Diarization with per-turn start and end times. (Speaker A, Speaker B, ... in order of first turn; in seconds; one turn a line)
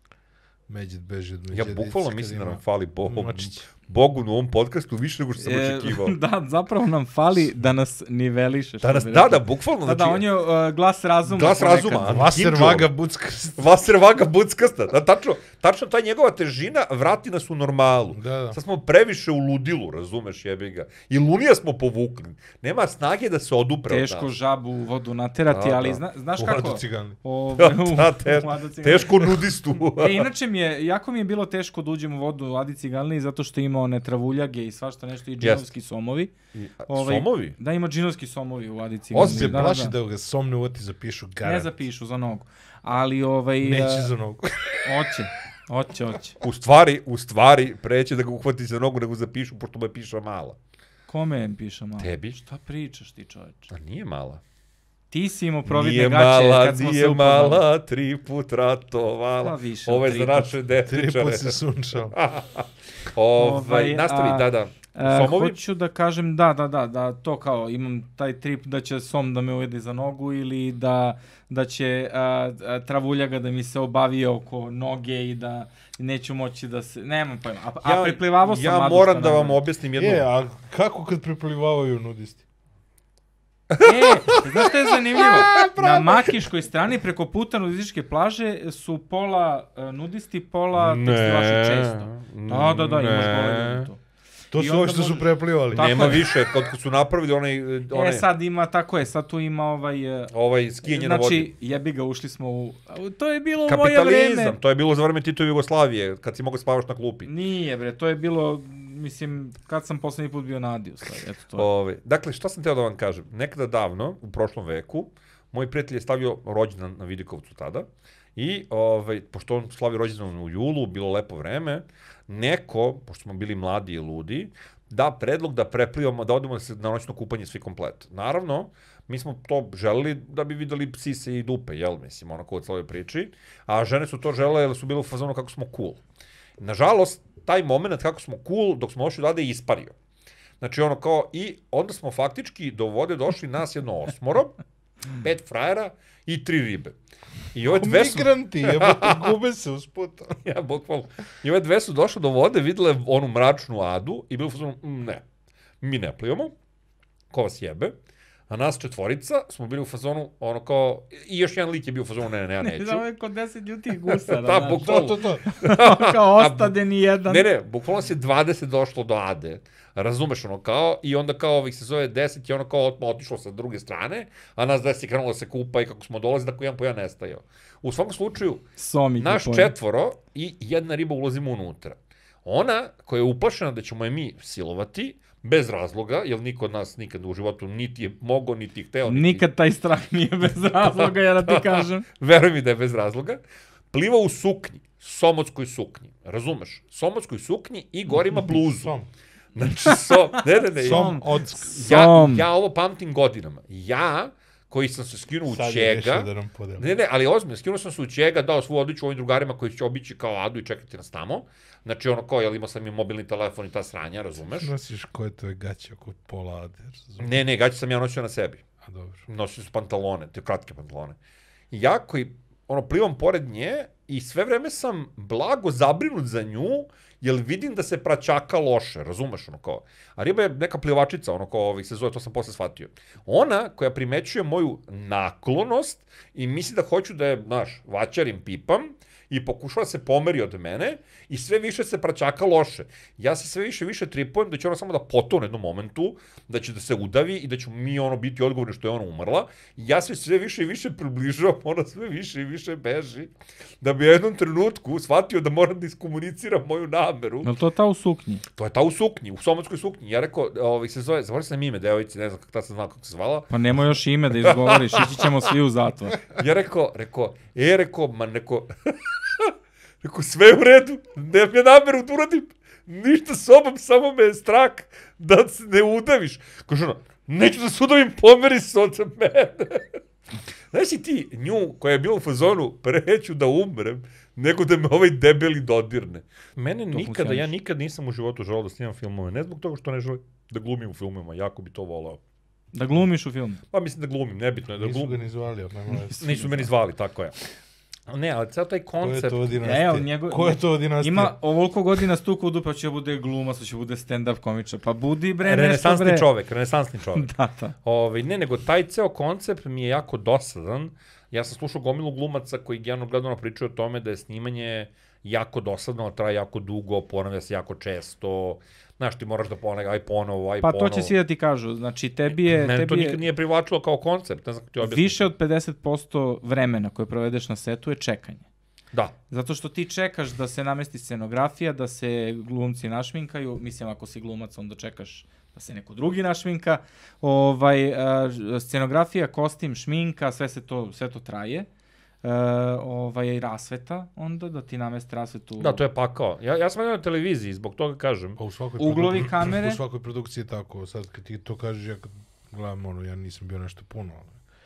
Speaker A: 0.7-3.6
Speaker B: 1.5-6.2
Speaker C: 5.4-12.2
Speaker B: 8.8-10.2
Speaker B: 11.3-12.9
Speaker A: 12.0-13.8
Speaker B: 13.6-24.3
Speaker A: 18.1-18.6
Speaker C: 23.9-29.4
Speaker B: 25.5-26.0
Speaker A: 26.4-27.2
Speaker B: 27.6-30.3
Speaker C: 30.0-36.3
Speaker B: 35.4-35.7
Speaker B: 36.5-37.6
Speaker C: 36.9-40.0
Speaker B: 39.1-39.7
Speaker A: 39.2-41.7
Speaker C: 41.4-44.1
Speaker A: 43.6-44.5
Speaker C: 44.8-46.4
Speaker B: 46.4-50.6
Speaker C: 51.1-53.7
Speaker B: 52.0-52.4
Speaker B: 53.7-54.4
Speaker C: 55.1-57.6
Speaker B: 55.7-65.6
Speaker C: 59.4-60.6
Speaker A: 60.8-62.2
Speaker C: 63.4-79.6
Speaker B: 77.8-80.3
Speaker A: 80.0-82.4
Speaker B: 83.7-86.4
Speaker C: 83.8-94.0
Speaker B: 90.7-93.9
Speaker A: 94.5-96.2
Speaker C: 94.5-96.3
Speaker B: 95.8-98.3
Speaker C: 97.9-100.3
Speaker B: 100.3-101.5
Speaker C: 100.8-104.6
Speaker B: 103.7-107.3
Speaker C: 107.2-111.7
Speaker B: 111.6-136.0
Speaker B: 136.6-139.9
Speaker B: 140.6-144.6
Speaker B: 145.1-146.9
Speaker B: 147.5-149.3
Speaker A: 147.7-150.4
Speaker B: 150.4-155.2
Speaker B: 155.8-156.5
Speaker B: 157.3-157.9
Speaker B: 158.5-163.0
Speaker C: 162.6-167.5
Speaker B: 164.0-178.7
Speaker A: 164.8-165.4
Speaker C: 178.8-179.7
Speaker B: 179.2-189.4
Speaker C: 189.1-192.1
Speaker B: 190.8-193.4
Speaker B: 193.9-198.9
Speaker A: 198.5-199.1
Speaker B: 199.6-214.7
Speaker C: 199.9-202.5
Speaker A: 200.8-201.7
Speaker A: 205.5-206.9
Speaker A: 214.5-217.4
Speaker B: 217.2-218.6
Speaker A: 218.8-219.2
Speaker B: 219.3-221.2
Speaker B: 221.7-257.5
Speaker C: 257.4-258.4
Speaker B: 258.6-263.5
Speaker C: 263.5-266.2
Speaker B: 264.4-265.5
Speaker B: 266.3-280.0
Speaker B: 280.7-292.2
Speaker C: 286.9-287.5
Speaker C: 292.7-293.6
Speaker B: 293.7-295.2
Speaker A: 294.7-296.7
Speaker B: 296.1-297.4
Speaker B: 298.1-299.6
Speaker A: 299.0-301.4
Speaker C: 299.6-306.3
Speaker B: 305.4-307.3
Speaker C: 307.2-307.8
Speaker B: 307.8-321.1
Speaker C: 320.6-323.2
Speaker B: 322.3-325.3
Speaker C: 324.8-328.5
Speaker C: 329.3-341.7
Speaker C: 342.2-345.8
Speaker B: 345.6-348.4
Speaker A: 348.4-354.4
Speaker C: 348.8-349.8